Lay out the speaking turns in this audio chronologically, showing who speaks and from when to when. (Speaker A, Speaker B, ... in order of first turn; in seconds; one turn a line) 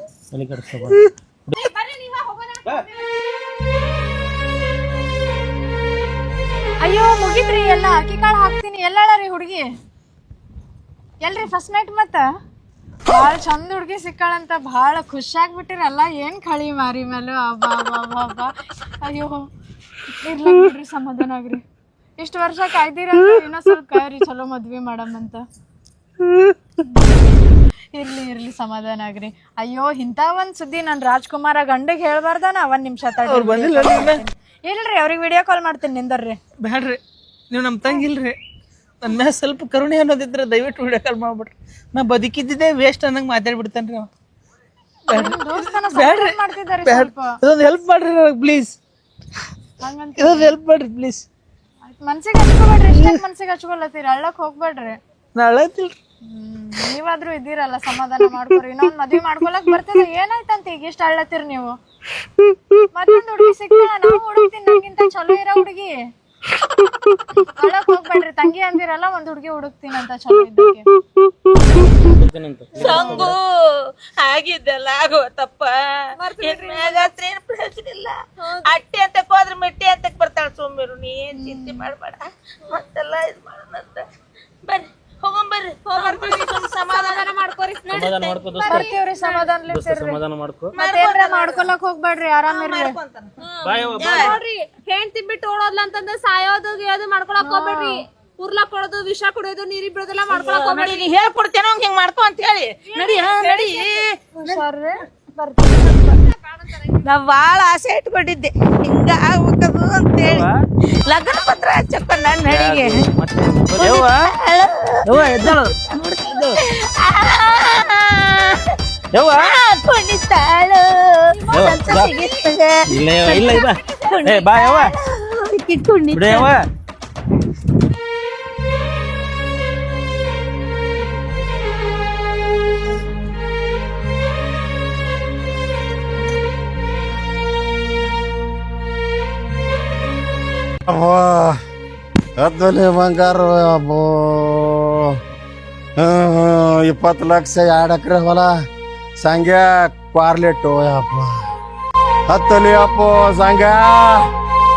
Speaker A: 0.3-1.6
Speaker B: 1.6-2.9
Speaker C: 6.8-9.7
Speaker C: 11.2-12.3
Speaker C: 13.1-18.5
Speaker C: 19.0-19.4
Speaker C: 20.2-21.6
Speaker C: 22.2-25.4
Speaker D: 26.3-26.5
Speaker C: 27.9-36.4
Speaker D: 33.3-34.2
Speaker D: 36.6-37.0
Speaker D: 37.5-38.4
Speaker D: 39.0-44.1
Speaker C: 45.1-47.4
Speaker D: 45.1-48.8
Speaker C: 49.8-50.5
Speaker D: 50.2-51.2
Speaker C: 51.9-55.0
Speaker D: 52.9-53.2
Speaker D: 55.4-55.9
Speaker C: 56.3-61.8
Speaker C: 62.9-66.0
Speaker C: 67.4-70.9
Speaker A: 71.7-73.4
Speaker E: 72.8-84.1
Speaker B: 76.2-77.1
Speaker B: 78.4-78.8
Speaker C: 81.4-81.9
Speaker E: 84.6-87.3
Speaker B: 85.9-89.5
Speaker A: 87.9-88.9
Speaker C: 88.7-90.2
Speaker A: 89.7-90.8
Speaker E: 90.8-91.6
Speaker C: 90.8-93.0
Speaker E: 92.5-93.3
Speaker B: 93.4-101.1
Speaker A: 93.6-94.3
Speaker E: 94.0-94.4
Speaker C: 97.4-98.0
Speaker E: 100.3-104.6
Speaker B: 103.0-103.9
Speaker C: 103.2-103.7
Speaker C: 104.4-105.9
Speaker B: 106.3-107.0
Speaker E: 107.0-110.5
Speaker A: 110.2-110.6
Speaker E: 111.0-113.0
Speaker A: 112.5-114.2
Speaker E: 113.8-118.8
Speaker A: 115.1-116.6
Speaker A: 119.1-119.5
Speaker E: 119.4-126.5
Speaker A: 121.5-122.1
Speaker B: 121.6-122.3
Speaker A: 122.9-124.9
Speaker A: 126.1-126.7
Speaker F: 140.9-141.6
Speaker F: 142.4-145.2
Speaker F: 146.0-148.6
Speaker F: 149.2-151.4
Speaker F: 152.3-154.3